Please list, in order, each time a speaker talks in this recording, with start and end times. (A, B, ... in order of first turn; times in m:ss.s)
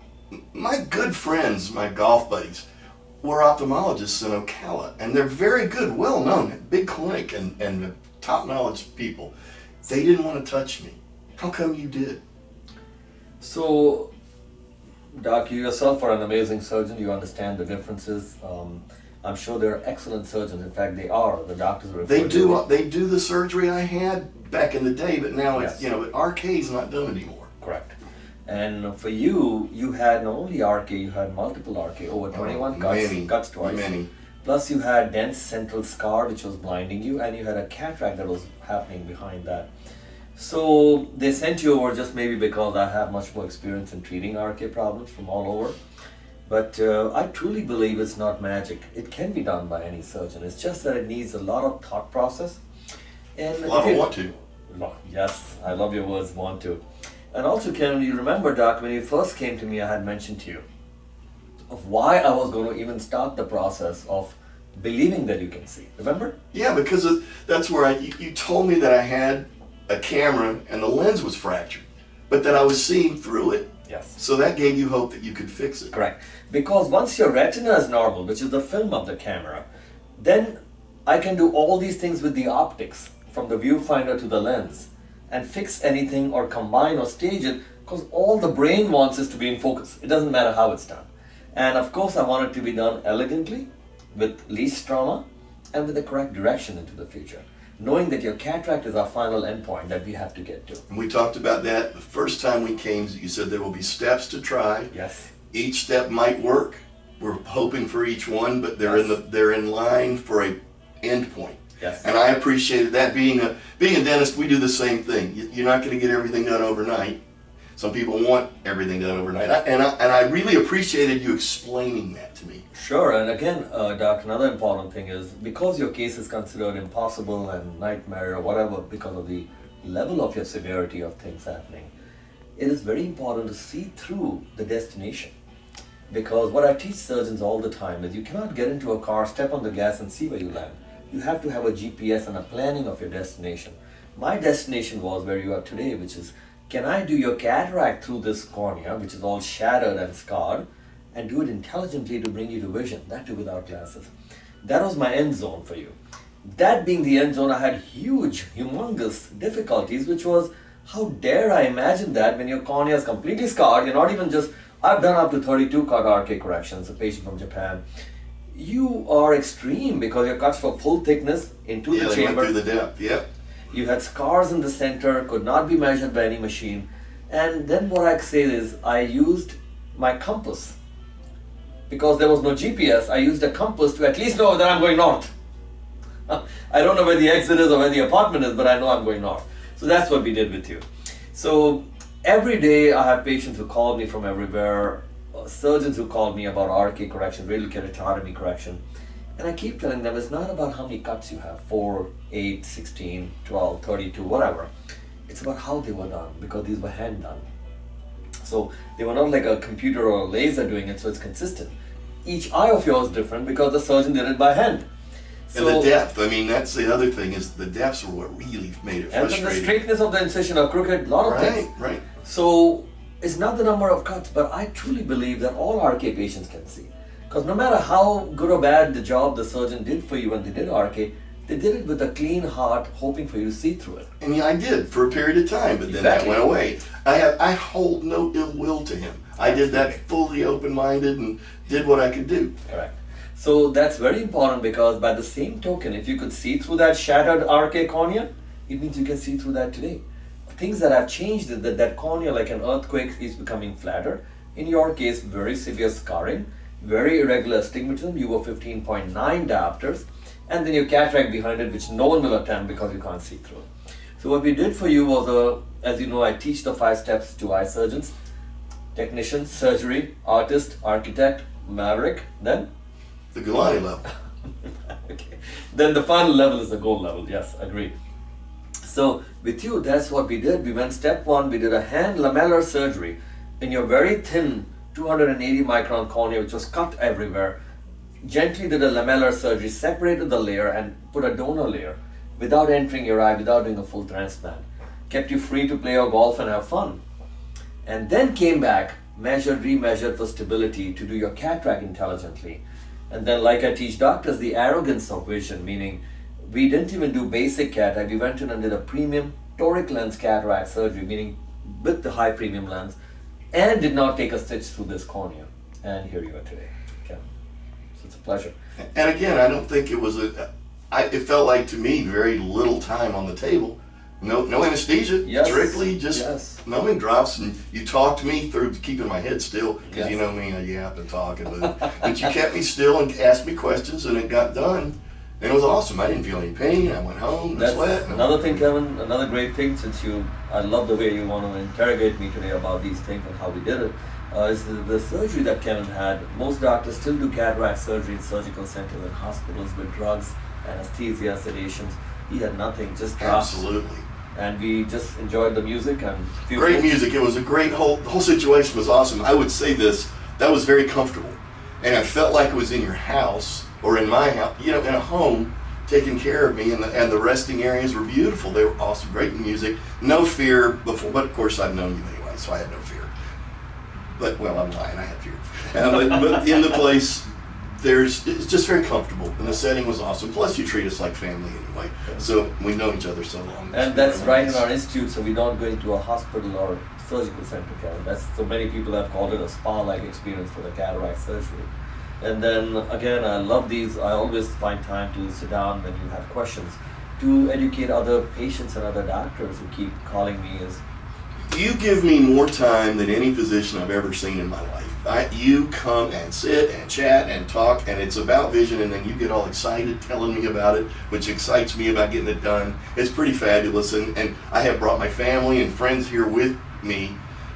0:00.5-0:02.6 A
0:03.2-0:12.2 A
0:13.4-0:14.1 B
0:15.1-0:22.6 B
0:22.0-0:27.5 A
0:27.6-0:28.0 B
0:28.5-0:33.9 B
0:32.3-0:34.1 A
0:34.4-0:39.7 B
0:40.4-0:45.8 B
0:46.5-0:52.6 B
0:53.4-0:54.2 B
0:53.6-0:54.3 A
0:54.7-0:56.8 B
0:57.3-1:00.6 B
1:01.7-1:06.3 B
1:06.5-1:15.9 A
1:13.9-1:14.2 B
1:15.9-1:19.6 B
1:20.2-1:40.8 B
1:40.9-1:44.9 A
1:44.9-1:45.3 B
1:45.5-1:57.2 A
1:48.9-1:49.1 B
1:51.8-1:52.0 B
1:57.8-2:02.6 A
2:02.7-2:11.9 B
2:12.6-2:15.3 B
2:16.1-2:34.1 B
2:34.6-2:36.0 B
2:36.5-2:47.8 B
2:48.5-2:52.5 B
2:51.9-2:53.2 A
2:53.7-3:00.8 B
3:01.9-3:05.3 B
3:06.3-3:10.8 B
3:11.3-3:18.8 B
3:19.4-3:24.7 B
3:25.3-3:27.4 B
3:28.4-3:34.9 B
3:35.5-3:35.9 B
3:35.5-3:39.7 A
3:39.1-3:41.7 B
3:41.2-3:42.0 A
3:42.2-3:54.1 B
3:54.2-4:02.5 A
3:55.9-3:56.5 B
3:59.4-4:00.0 B
4:02.7-4:23.7 B
4:24.2-4:28.1 B
4:29.0-4:32.7 B
4:33.3-4:34.1 A
4:34.9-4:37.9 B
4:38.8-4:47.6 B
4:48.2-4:57.0 B
4:57.8-5:13.0 B
5:13.5-5:17.2 B
5:18.0-5:18.5 B
5:19.0-5:38.6 A
5:25.2-5:26.6 B
5:29.9-5:30.2 B
5:37.5-5:53.6 B
5:53.2-5:54.1 A
5:54.4-5:57.0 B
5:56.6-6:13.1 A
6:14.2-6:24.6 A
6:23.7-6:31.7 B
6:32.2-6:40.8 B
6:41.5-6:57.2 A